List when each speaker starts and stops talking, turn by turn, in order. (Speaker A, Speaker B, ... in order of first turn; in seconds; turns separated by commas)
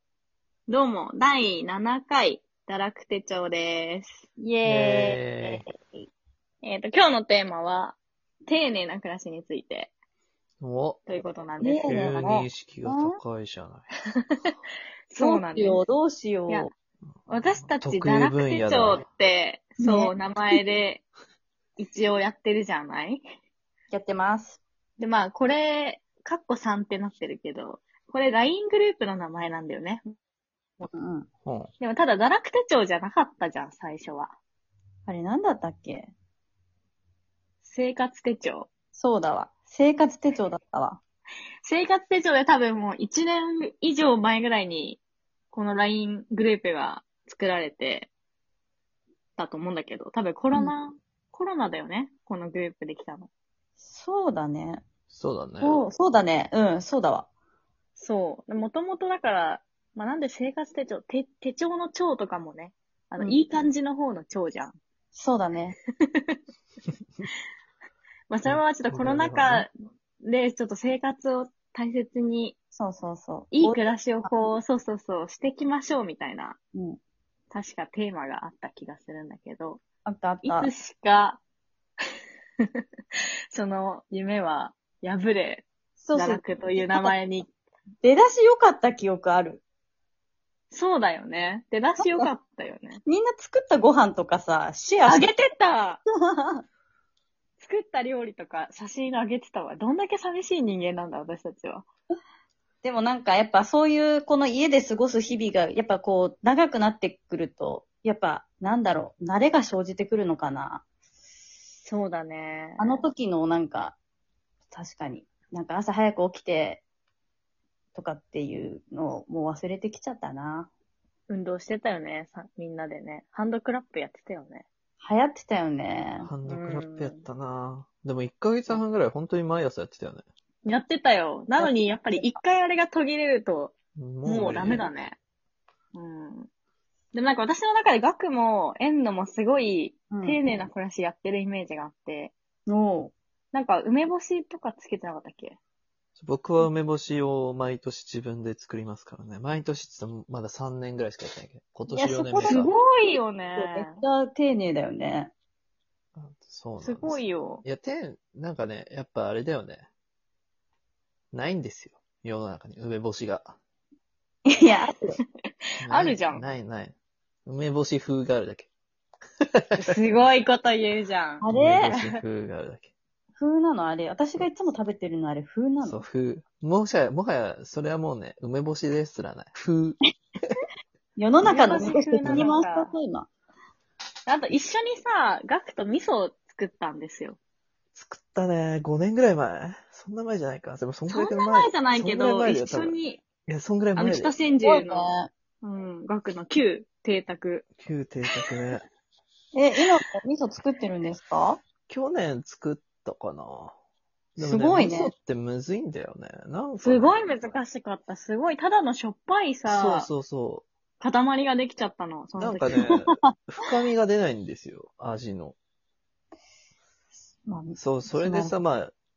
Speaker A: 0.7-4.2, Speaker B: 4.4-5.6, Speaker C: 4.6-5.7, Speaker A: 6.6-9.9, Speaker C: 10.6-11.1, Speaker A: 11.1-12.5, Speaker B: 11.6-12.3, Speaker C: 11.8-13.9, Speaker B: 12.8-13.2, Speaker A: 14.3-14.5, Speaker A: 15.1-15.8, Speaker B: 15.2-16.7, Speaker C: 17.3-19.0, Speaker A: 17.3-21.1, Speaker B: 19.8-20.6, Speaker A: 21.8-23.2, Speaker B: 23.9-24.6, Speaker A: 25.0-30.1, Speaker B: 30.9-31.3, Speaker C: 31.4-31.7, Speaker A: 31.8-34.4, Speaker B: 35.1-36.1, Speaker A: 37.6-38.7, Speaker B: 39.0-41.0, Speaker A: 41.6-48.1, Speaker A: 49.4-53.3, Speaker B: 53.8-54.8, Speaker C: 55.1-55.9, Speaker B: 55.6-57.3, Speaker A: 58.0-64.8, Speaker B: 65.1-65.8, Speaker A: 66.1-66.4, Speaker A: 68.3-69.7, Speaker C: 68.5-69.7, Speaker A: 70.2-72.5, Speaker B: 72.7-74.5, Speaker A: 73.5-76.6, Speaker B: 76.7-77.0, Speaker A: 77.5-79.8, Speaker B: 80.0-80.7, Speaker A: 80.4-81.4, Speaker A: 83.5-87.5, Speaker B: 86.0-87.1, Speaker B: 88.0-89.6, Speaker A: 90.7-93.0, Speaker B: 92.0-92.3, Speaker B: 93.0-95.3, Speaker A: 95.0-96.0, Speaker B: 96.2-96.6, Speaker A: 97.6-101.9, Speaker B: 102.8-110.8, Speaker A: 111.8-113.0, Speaker B: 112.8-114.0, Speaker B: 114.7-116.8, Speaker B: 118.0-120.7, Speaker A: 121.3-124.7, Speaker B: 125.0-126.3, Speaker C: 126.2-130.2, Speaker A: 126.5-127.2, Speaker A: 130.7-135.2, Speaker B: 131.6-132.3, Speaker C: 134.0-134.8, Speaker A: 135.9-136.5, Speaker A: 137.1-142.3, Speaker B: 140.1-140.4, Speaker B: 142.7-143.1, Speaker A: 143.5-145.6, Speaker C: 146.2-152.7, Speaker A: 152.0-154.0, Speaker B: 152.2-152.7, Speaker B: 153.6-155.3, Speaker C: 156.2-159.9, Speaker A: 156.8-157.6, Speaker C: 161.3-163.6, Speaker B: 164.5-165.2, Speaker C: 165.8-166.9, Speaker A: 165.9-166.4, Speaker C: 167.5-168.7, Speaker A: 169.8-171.5, Speaker B: 171.4-171.9, Speaker C: 171.5-172.9, Speaker B: 173.4-176.0, Speaker C: 175.8-180.6, Speaker B: 181.2-183.3, Speaker C: 181.4-182.5, Speaker A: 181.4-182.9, Speaker A: 184.3-187.4, Speaker C: 187.9-193.0, Speaker A: 191.1-193.2, Speaker C: 193.5-194.3, Speaker A: 193.9-197.7, Speaker B: 194.6-195.3, Speaker C: 197.8-198.8, Speaker B: 199.5-201.6, Speaker C: 201.9-203.8, Speaker C: 204.4-207.3, Speaker B: 204.4-205.1, Speaker A: 206.8-210.1, Speaker C: 209.7-210.7, Speaker A: 211.0-212.8, Speaker C: 212.4-215.6, Speaker B: 212.8-213.3, Speaker B: 217.4-218.5, Speaker C: 217.8-218.9